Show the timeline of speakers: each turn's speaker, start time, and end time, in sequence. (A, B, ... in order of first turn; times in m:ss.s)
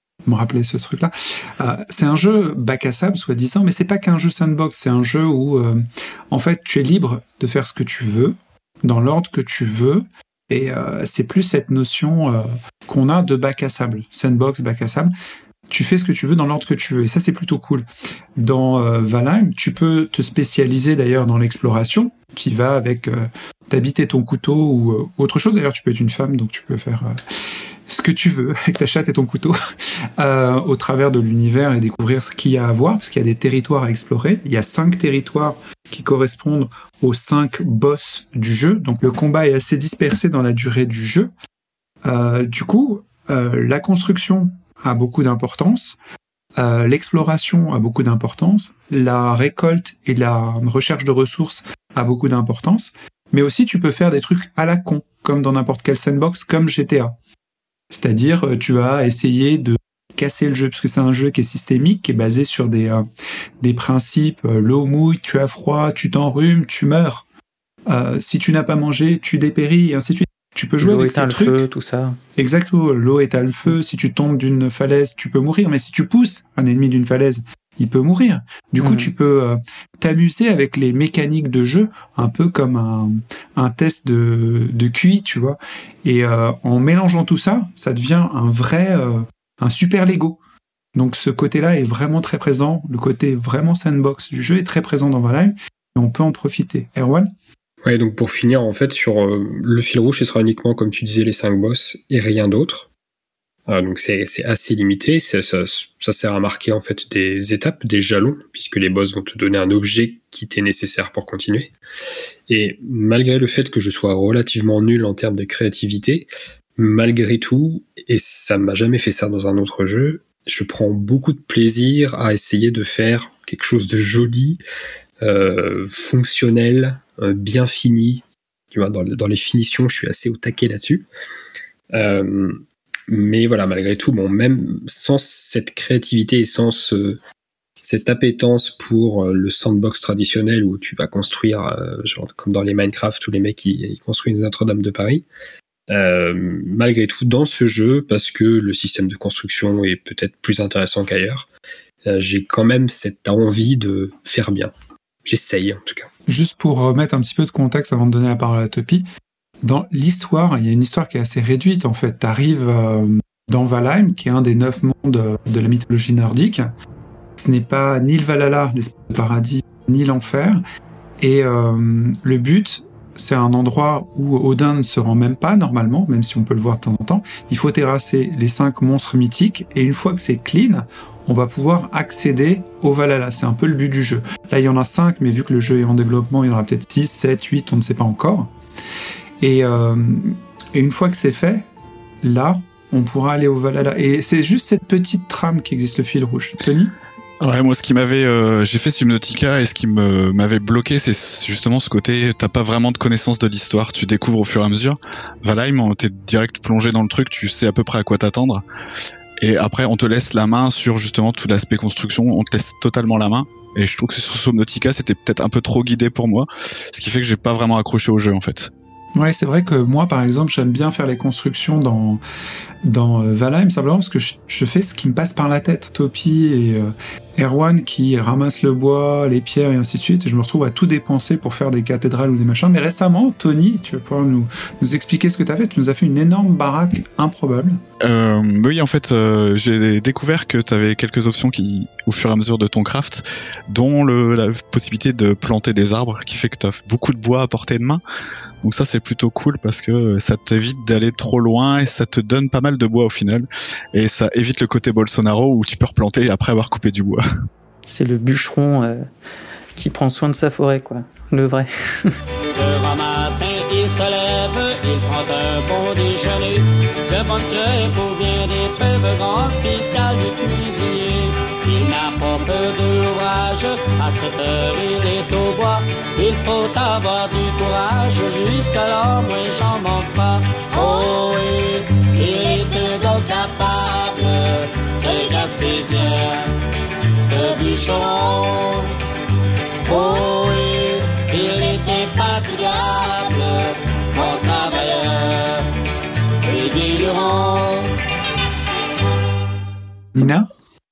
0:00.2-0:15.1 A
0:15.7-0:17.8 A
0:18.4-0:27.2 A
0:27.9-0:29.6 A
0:30.2-0:41.3 A
0:42.0-0:46.0 A
0:46.6-0:57.1 A
0:57.9-1:03.0 A
1:03.6-1:07.2 A
1:07.9-1:11.6 A
1:10.8-1:12.2 B
1:12.4-1:30.4 A
1:18.8-1:19.1 B
1:30.9-1:37.3 A
1:37.8-1:42.9 C
1:43.7-1:51.7 C
1:52.5-2:04.6 C
2:05.2-2:11.0 C
2:11.9-2:17.2 C
2:17.8-2:25.2 C
2:25.9-2:31.5 C
2:32.0-2:34.7 C
2:35.2-2:36.1 C
2:36.3-2:39.0 A
2:39.6-2:46.7 A
2:47.4-2:50.6 A
2:51.2-3:08.5 A
3:09.4-3:11.7 A
3:12.2-3:16.9 A
3:17.4-3:28.6 D
3:29.4-3:38.7 D
3:39.2-3:42.2 A
3:42.8-3:57.8 A
3:58.0-4:08.0 D
4:08.6-4:17.2 D
4:17.8-4:19.0 B
4:19.7-4:22.1 B
4:22.5-4:46.5 E
4:47.2-4:48.9 E
4:49.8-4:55.6 E
4:56.4-4:57.9 E
5:00.1-5:00.5 A